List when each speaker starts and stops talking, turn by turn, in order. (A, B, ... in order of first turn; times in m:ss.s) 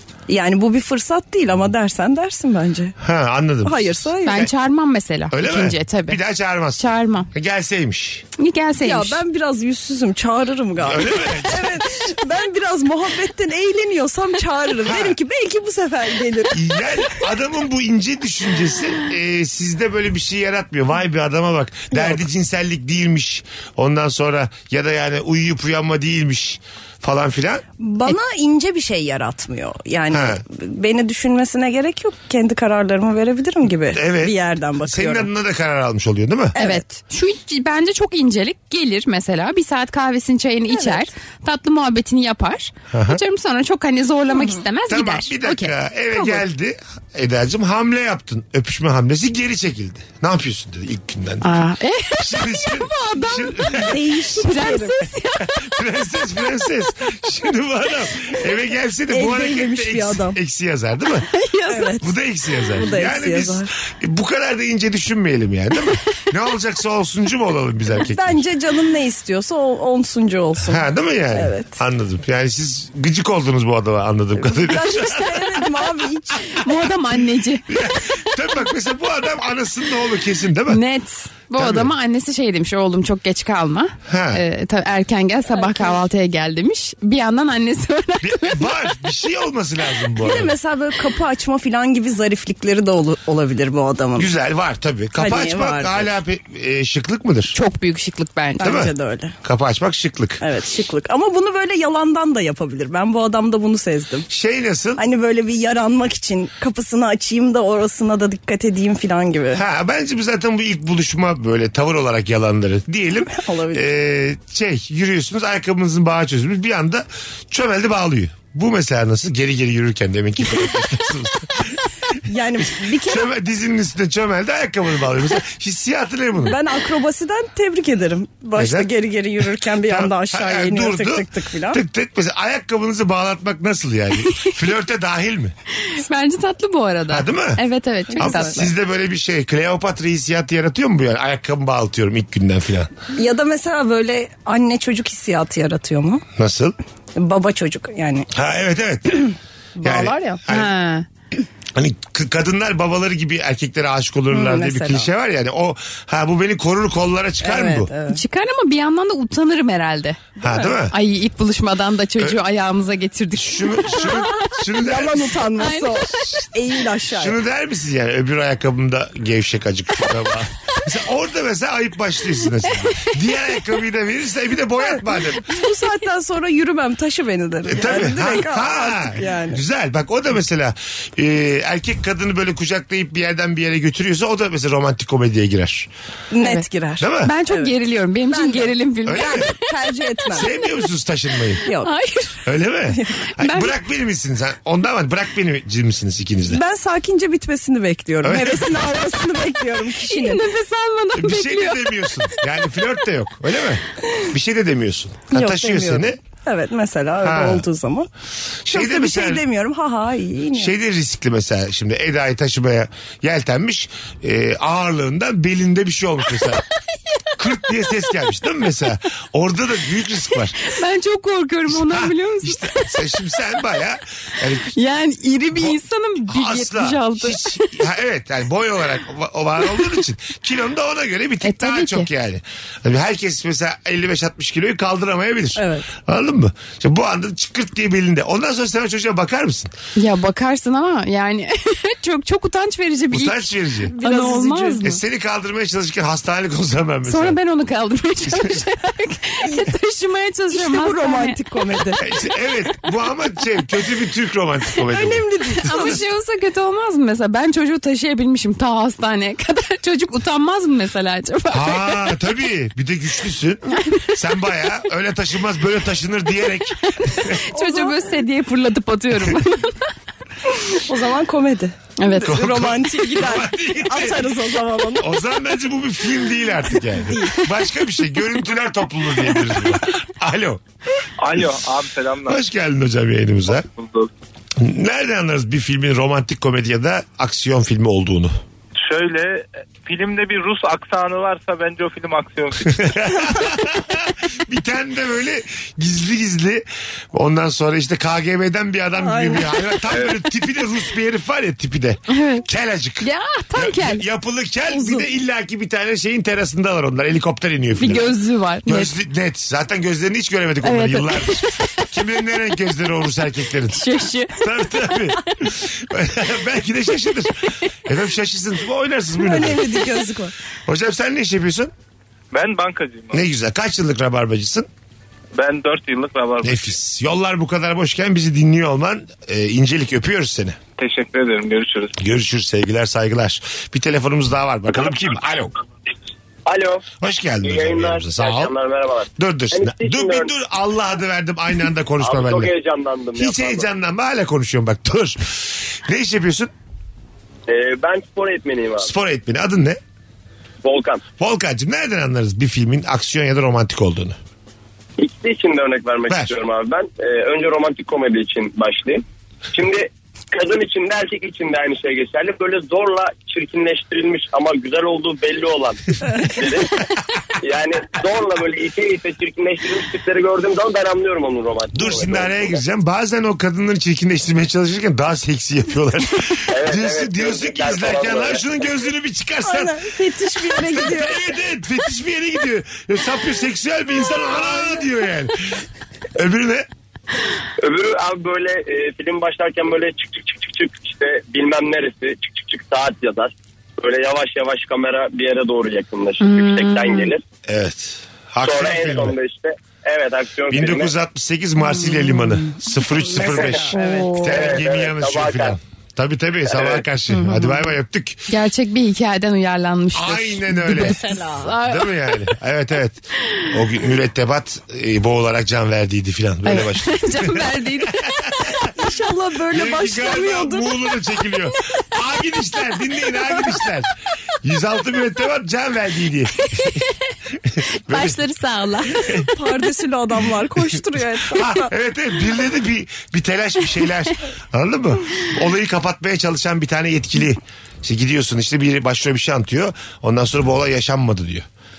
0:00.3-0:03.0 A
0:03.0-0:04.4 B
0:03.6-0:04.5 A
0:04.2-0:06.2 C
0:05.3-0:08.3 B
0:06.8-0:07.3 C
0:08.4-0:09.2 C
0:08.8-0:16.6 A
0:10.8-0:11.9 B
0:14.8-0:15.2 B
0:16.5-0:27.6 B
0:21.9-0:22.2 A
0:27.8-0:35.3 A
0:30.1-0:30.4 B
0:33.9-0:36.6 B
0:36.6-0:36.8 A
0:36.6-0:45.7 C
0:40.7-0:41.0 A
0:42.9-0:43.2 B
0:44.3-0:44.6 A
0:44.9-0:51.5 B
0:51.4-0:55.7 C
0:52.2-0:54.0 B
0:53.7-0:55.0 A
0:55.4-1:01.3 B
0:59.1-1:00.4 A
1:01.3-1:02.0 C
1:01.7-1:02.1 A
1:02.0-1:08.4 B
1:02.7-1:03.7 A
1:08.0-1:11.8 A
1:10.6-1:15.6 B
1:14.4-1:16.6 A
1:16.6-1:17.7 C
1:17.0-1:20.8 B
1:20.7-1:28.7 C
1:21.5-1:21.9 B
1:24.1-1:24.4 B
1:25.5-1:26.0 A
1:28.2-1:30.6 B
1:30.2-1:34.3 A
1:34.2-1:37.6 B
1:35.2-1:36.1 A
1:37.5-1:38.9 C
1:38.6-1:39.4 A
1:38.6-1:40.4 B
1:40.4-1:44.3 A
1:44.3-1:45.0 B
1:45.0-1:49.6 A
1:49.5-2:01.9 B
1:53.3-1:53.9 A
2:02.2-2:03.3 A
2:02.8-2:06.6 B
2:06.4-2:11.8 A
2:08.6-2:08.9 B
2:09.8-2:15.6 B
2:15.8-2:18.7 C
2:17.1-2:17.6 B
2:18.1-2:18.7 A
2:18.2-2:22.9 B
2:23.1-2:26.2 A
2:26.4-2:26.7 B
2:27.2-2:28.3 A
2:28.3-2:29.3 B
2:29.8-2:30.4 A
2:29.8-2:30.7 B
2:30.0-2:31.1 C
2:31.8-2:37.9 B
2:34.3-2:35.1 A
2:37.4-2:38.2 A
2:38.1-2:40.3 C
2:40.4-2:40.8 A
2:40.4-2:41.0 B
2:40.9-2:44.5 C
2:43.4-2:45.5 B
2:44.0-2:47.4 A
2:45.6-2:46.5 C
2:47.1-2:55.5 B
2:54.8-2:59.6 A
2:57.7-3:05.9 B
3:06.3-3:07.7 A
3:06.4-3:06.7 C
3:07.0-3:07.3 B
3:07.2-3:10.5 C
3:08.3-3:10.5 A
3:09.1-3:09.5 B
3:10.3-3:11.6 B
3:11.4-3:12.4 C
3:12.5-3:16.6 B
3:12.9-3:13.2 A
3:13.4-3:13.7 C
3:16.5-3:20.4 A
3:18.2-3:18.9 B
3:20.0-3:22.4 C
3:21.2-3:26.2 B
3:25.3-3:28.1 A
3:27.2-3:27.7 B
3:28.6-3:29.4 B
3:28.7-3:30.7 A
3:30.6-3:36.6 B
3:37.4-3:40.7 B
3:40.6-3:43.4 C
3:41.7-3:44.8 B
3:44.7-3:47.8 C
3:46.3-3:59.7 B
3:51.4-3:52.1 C
3:55.6-3:55.9 A
4:00.0-4:05.0 C
4:03.1-4:04.0 B
4:03.9-4:04.8 A
4:04.8-4:07.4 B
4:07.1-4:11.4 C
4:10.5-4:12.0 A
4:12.0-4:16.0 B
4:14.9-4:16.0 A
4:15.6-4:22.1 C
4:21.5-4:27.4 B
4:27.2-4:29.8 C
4:27.5-4:28.0 A
4:30.7-4:35.1 A
4:32.0-4:32.5 C
4:32.3-4:34.3 B
4:35.0-4:40.6 B
4:37.0-4:37.5 A
4:41.2-4:42.4 D
4:42.3-4:43.6 B
4:43.5-4:44.1 D
4:44.6-4:48.3 B
4:48.8-4:53.0 D
4:52.7-5:19.8 B
4:59.0-4:59.5 A
5:02.1-5:02.5 C
5:03.0-5:04.0 C
5:04.7-5:05.0 A
5:07.8-5:08.9 C
5:10.6-5:11.6 C
5:13.7-5:14.4 C
5:19.2-5:20.3 A
5:20.7-5:21.7 B
5:22.3-5:23.2 D
5:23.1-5:24.7 B
5:25.4-5:26.8 D
5:26.4-5:30.6 B
5:30.8-5:31.9 D
5:32.0-5:35.5 B
5:36.5-5:36.9 E
5:37.0-5:38.5 B
5:37.4-5:40.3 E
5:39.2-5:42.5 B
5:42.0-5:43.7 E
5:43.2-5:46.5 B
5:47.5-5:48.9 E
5:48.8-5:49.8 B
5:50.6-5:51.0 E
5:51.2-5:54.2 B
5:55.0-6:06.8 E
5:56.1-5:56.4 B
6:07.4-6:12.6 E
6:11.7-6:19.8 B
6:16.5-6:18.4 E
6:19.4-6:21.2 A
6:20.5-6:25.6 B
6:26.2-6:26.7 B
6:27.6-6:37.2 E
6:36.2-6:37.1 C
6:37.5-6:39.2 B
6:38.4-6:40.9 E
6:40.5-6:48.3 B
6:43.1-6:44.2 A
6:43.8-6:44.5 C
6:44.3-6:45.6 E
6:46.5-6:46.8 E
6:47.1-6:47.7 C
6:48.3-6:52.2 C
6:49.9-6:58.6 B
6:50.8-6:51.5 A
6:56.4-6:58.7 C
6:58.7-7:00.7 A
6:59.5-7:03.9 B
7:04.4-7:06.8 B
7:06.4-7:06.9 C
7:07.6-7:08.2 B
7:07.9-7:09.3 C
7:09.0-7:09.3 B
7:09.3-7:11.7 A
7:11.3-7:21.5 B